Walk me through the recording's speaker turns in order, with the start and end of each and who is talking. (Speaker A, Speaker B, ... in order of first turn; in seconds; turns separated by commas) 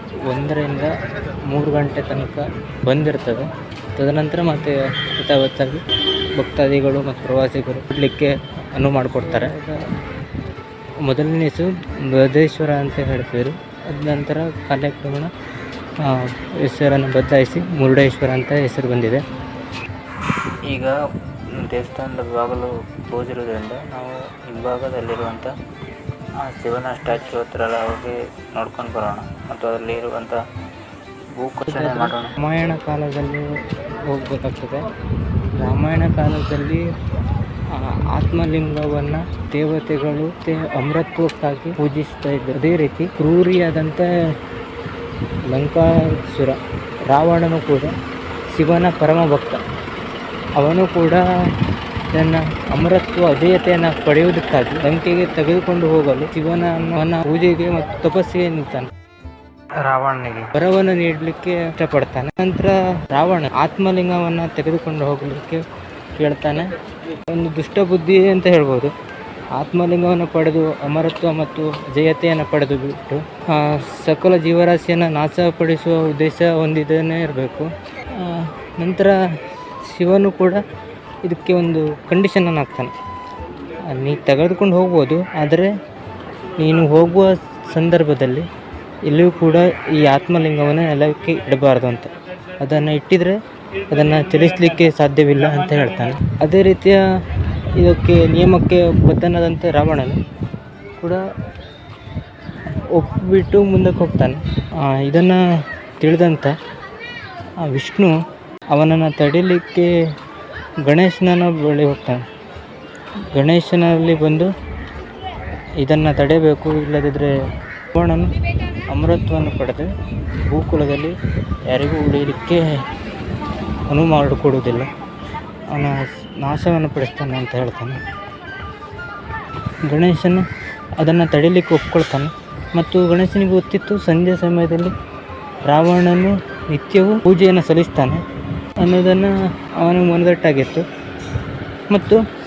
Speaker A: 0.2-0.9, Speaker A: 1.5-5.8, Speaker A: 6.4-9.8, Speaker A: 11.0-15.3, Speaker A: 16.0-19.2, Speaker A: 20.7-20.9, Speaker A: 21.6-25.5, Speaker A: 26.4-30.4, Speaker A: 31.4-33.5, Speaker A: 34.0-34.9, Speaker A: 35.6-36.8, Speaker A: 37.7-44.1, Speaker A: 45.5-47.9, Speaker A: 48.5-49.6, Speaker A: 50.6-51.2, Speaker A: 52.1-58.9, Speaker A: 59.8-65.6, Speaker A: 66.2-68.9, Speaker A: 69.6-79.2, Speaker A: 79.9-80.6, Speaker A: 81.2-82.9, Speaker A: 83.9-85.7, Speaker A: 86.6-88.5, Speaker A: 89.1-93.4, Speaker A: 93.9-97.0, Speaker A: 97.8-100.2, Speaker A: 102.9-105.4, Speaker A: 106.0-106.5, Speaker A: 107.6-108.2, Speaker A: 108.7-109.9, Speaker A: 110.8-112.2, Speaker A: 113.3-114.5, Speaker A: 115.8-117.3, Speaker A: 117.9-118.3, Speaker A: 118.9-119.9, Speaker A: 120.4-121.1, Speaker A: 121.7-122.6, Speaker A: 123.9-124.9, Speaker A: 125.7-128.0, Speaker A: 129.8-130.4, Speaker A: 131.0-134.9, Speaker A: 135.7-138.2, Speaker A: 138.8-140.8, Speaker A: 141.9-142.2